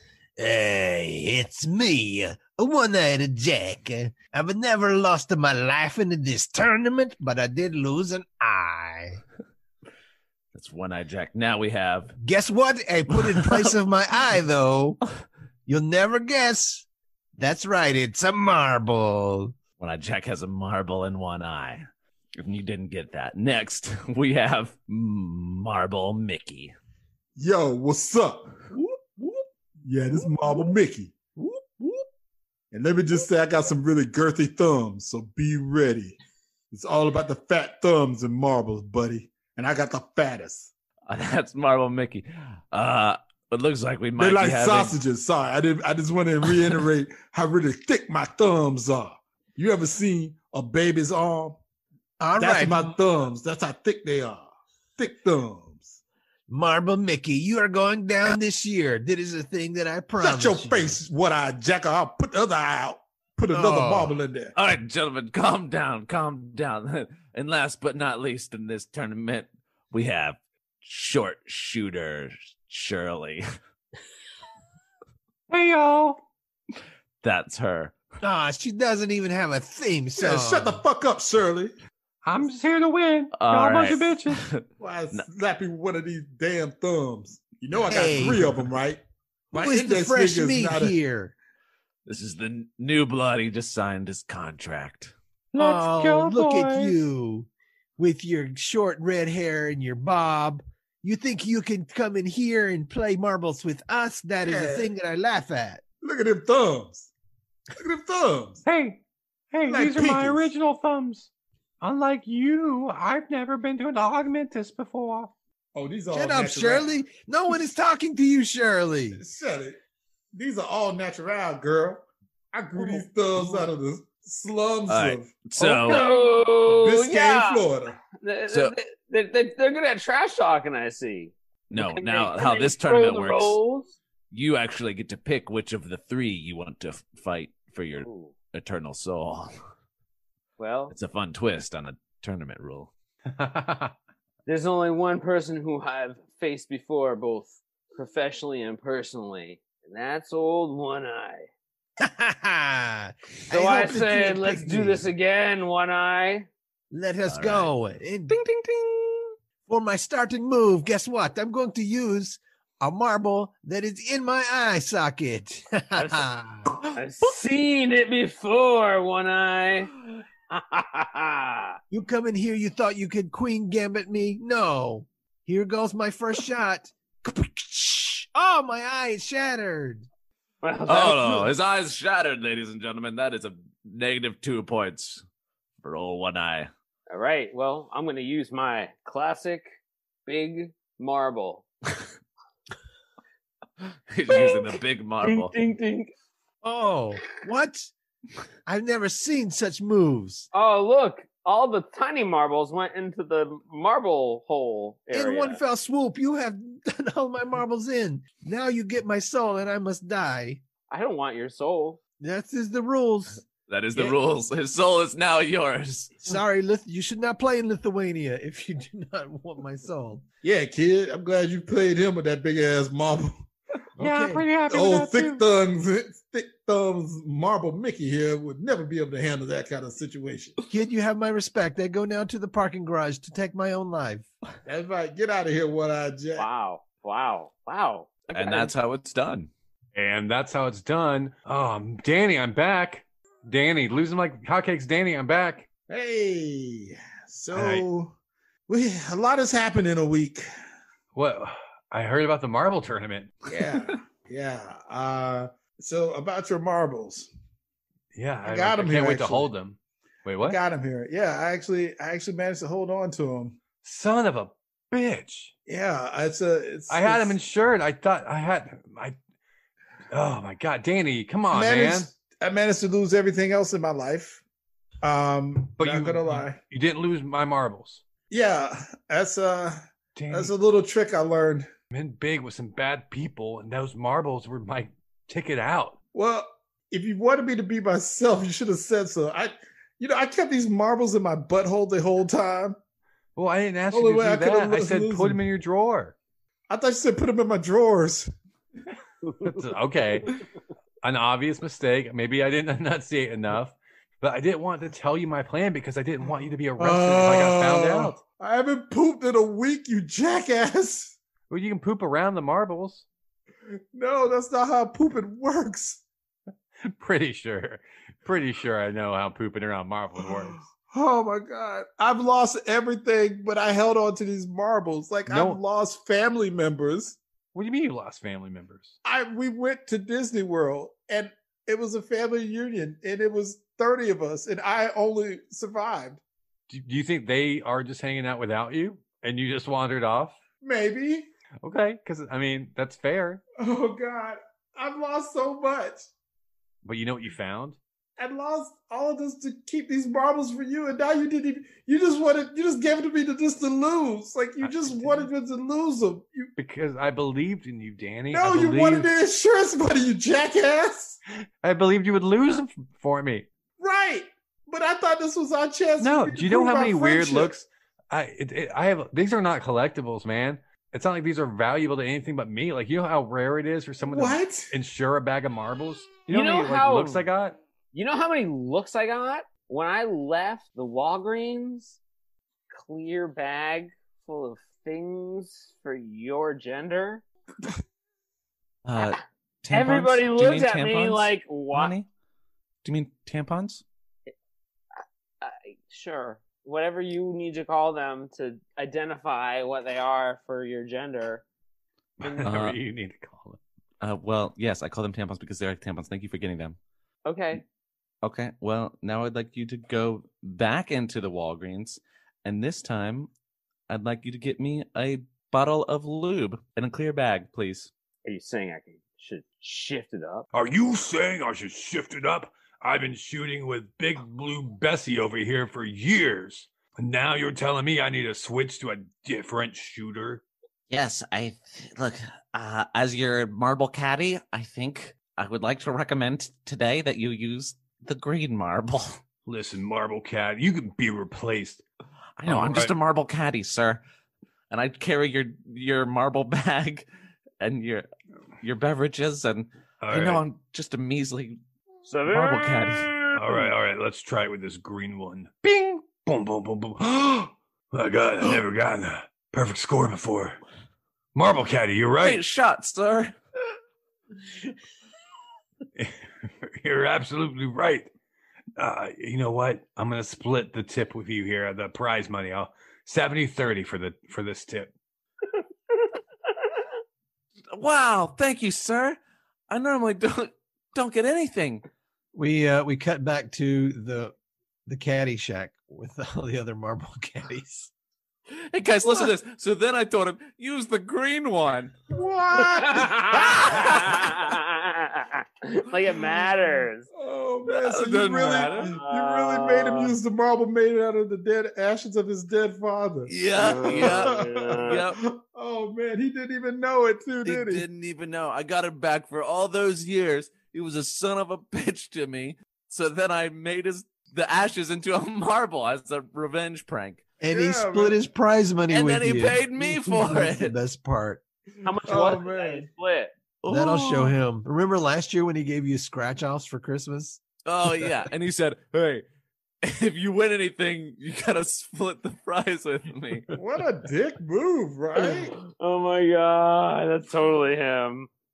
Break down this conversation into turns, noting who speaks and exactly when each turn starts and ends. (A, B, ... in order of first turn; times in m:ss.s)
0:00.4-0:09.2 A
0:10.5-0:12.2 B
0:12.2-0:15.0 A
0:13.2-0:13.7 B
0:15.6-0:16.8 A
0:17.4-0:19.5 A
0:19.8-0:21.8 B
0:22.4-0:26.7 B
0:27.4-0:31.4 C
0:32.7-0:36.2 C
0:36.7-0:40.7 C
0:41.1-0:45.0 B
0:44.2-0:51.6 C
0:52.2-0:53.0 A
0:52.4-0:56.0 C
0:56.5-1:01.0 A
1:00.2-1:04.5 C
1:03.5-1:04.2 A
1:04.5-1:13.4 B
1:15.5-1:16.2 D
1:17.2-1:18.0 B
1:18.2-1:20.8 A
1:20.2-1:21.7 C
1:22.2-1:24.4 D
1:23.4-1:25.2 B
1:24.8-1:31.0 C
1:27.9-1:28.6 A
1:29.5-1:31.3 A
1:32.0-1:35.1 B
1:35.5-1:45.8 A
1:35.5-1:37.1 D
1:44.4-1:44.9 C
1:46.0-1:47.1 C
1:47.8-1:48.6 C
1:48.6-1:51.3 D
1:49.7-1:50.5 C
1:51.8-1:55.3 D
1:55.8-1:56.9 C
1:56.1-1:59.2 A
1:59.2-1:59.8 C
2:00.3-2:05.3 C
2:02.8-2:03.0 E
2:04.9-2:06.0 B
2:05.8-2:14.0 E
2:05.9-2:08.0 C
2:08.5-2:08.8 B
2:11.7-2:13.6 B
2:14.3-2:19.5 B
2:18.0-2:18.3 E
2:20.6-2:20.9 E
2:20.9-2:22.9 B
2:23.3-2:23.9 D
2:24.4-2:31.5 E
2:32.0-2:35.1 A
2:33.5-2:36.5 E
2:36.9-2:38.4 A
2:37.3-2:37.7 B
2:38.3-2:39.3 B
2:39.7-2:46.7 A
2:45.9-2:46.2 E
2:46.8-2:47.4 B
2:46.9-2:51.8 E
2:51.9-3:00.1 A
3:00.6-3:01.5 E
3:00.8-3:05.2 B
3:05.8-3:06.7 B
3:07.1-3:09.7 E
3:10.2-3:11.6 E
3:14.1-3:15.6 B
3:14.3-3:16.1 E
3:16.6-3:17.9 A
3:18.6-3:20.5 A
3:20.5-3:25.6 E
3:25.1-3:30.6 A
3:30.9-3:32.0 E
3:32.2-3:33.4 A
3:33.6-3:36.2 B
3:36.2-3:40.2 A
3:40.4-3:43.4 C
3:44.0-3:44.5 A
3:44.0-3:45.4 D
3:44.7-3:50.6 C
3:50.7-3:54.3 A
3:54.6-3:56.5 C
3:56.4-3:58.7 E
3:58.3-3:59.5 B
3:59.9-4:05.7 D
4:05.9-4:08.1 C
4:07.5-4:07.8 D
4:08.7-4:10.4 C
4:11.1-4:13.4 D
4:13.4-4:17.3 C
4:18.1-4:20.6 D
4:18.4-4:19.5 C
4:20.4-4:23.6 C
4:23.8-4:25.5 D
4:25.7-4:27.4 C
4:26.9-4:29.2 D
4:30.1-4:32.1 D
4:31.5-4:34.4 C
4:35.0-4:36.6 C
4:35.8-4:38.0 D
4:38.3-4:39.8 C
4:40.2-4:40.5 D
4:40.3-4:41.7 C
4:41.9-4:46.0 D
4:46.1-4:52.8 C
4:53.4-4:56.1 D
4:53.9-4:55.4 C
4:56.7-4:58.3 C
4:59.4-5:00.4 D
5:01.0-5:08.2 D
5:06.8-5:11.2 C
5:11.5-5:13.0 D
5:13.9-5:16.0 C
5:16.9-5:20.7 D
5:20.2-5:27.2 C
5:25.2-5:25.6 D
5:27.5-5:29.0 D
5:29.0-5:36.2 C
5:36.7-5:40.4 D
5:40.6-5:41.3 C
5:41.6-5:43.4 D
5:43.6-5:46.0 C
5:46.8-5:47.8 D
5:48.2-5:56.5 C
5:54.6-5:55.3 D
5:56.6-5:59.1 D
5:58.3-6:01.2 C
6:01.6-6:03.5 D
6:03.8-6:07.5 C
6:06.0-6:17.6 D
6:14.1-6:14.7 C
6:16.3-6:17.2 E
6:17.9-6:22.0 E
6:22.8-6:27.2 E
6:28.8-6:32.1 B
6:29.7-6:31.9 E
6:32.8-6:33.8 B
6:35.4-6:41.4 E
6:42.2-6:43.6 D
6:42.2-6:42.5 E
6:42.4-6:42.8 B
6:44.0-6:46.8 B
6:47.2-6:47.6 E
6:48.2-6:53.3 B
6:53.9-6:57.9 B
6:58.2-7:00.4 E
7:00.5-7:10.4 D
7:10.9-7:19.2 B
7:19.4-7:21.8 D
7:22.4-7:24.0 B
7:22.4-7:22.9 D
7:24.7-7:27.1 B
7:27.6-7:28.1 B
7:28.6-7:31.6 B
7:30.0-7:30.4 D
7:32.0-7:33.7 E
7:32.3-7:33.1 B
7:33.3-7:40.6 D
7:41.4-7:42.4 D
7:42.2-7:43.3 B
7:46.0-7:48.1 D
7:48.8-7:54.9 D
7:57.7-7:59.2 B
7:59.7-8:01.8 B
8:02.3-8:04.3 A
8:04.9-8:07.9 A
8:08.5-8:11.9 B
8:12.1-8:14.2 C
8:12.6-8:17.1 E
8:13.4-8:14.2 B
8:17.1-8:27.8 C
8:17.6-8:18.9 B
8:18.6-8:20.2 E
8:23.3-8:25.2 B
8:23.6-8:25.0 E
8:27.4-8:37.2 B
8:37.4-8:41.4 A
8:37.5-8:38.2 C
8:38.9-8:40.7 B
8:41.8-8:43.3 E
8:42.0-8:42.9 C
8:43.6-8:44.4 B
8:43.7-8:48.1 A
8:47.6-8:49.2 B
8:49.8-8:53.5 B
8:53.5-8:55.5 C
8:55.1-8:58.3 E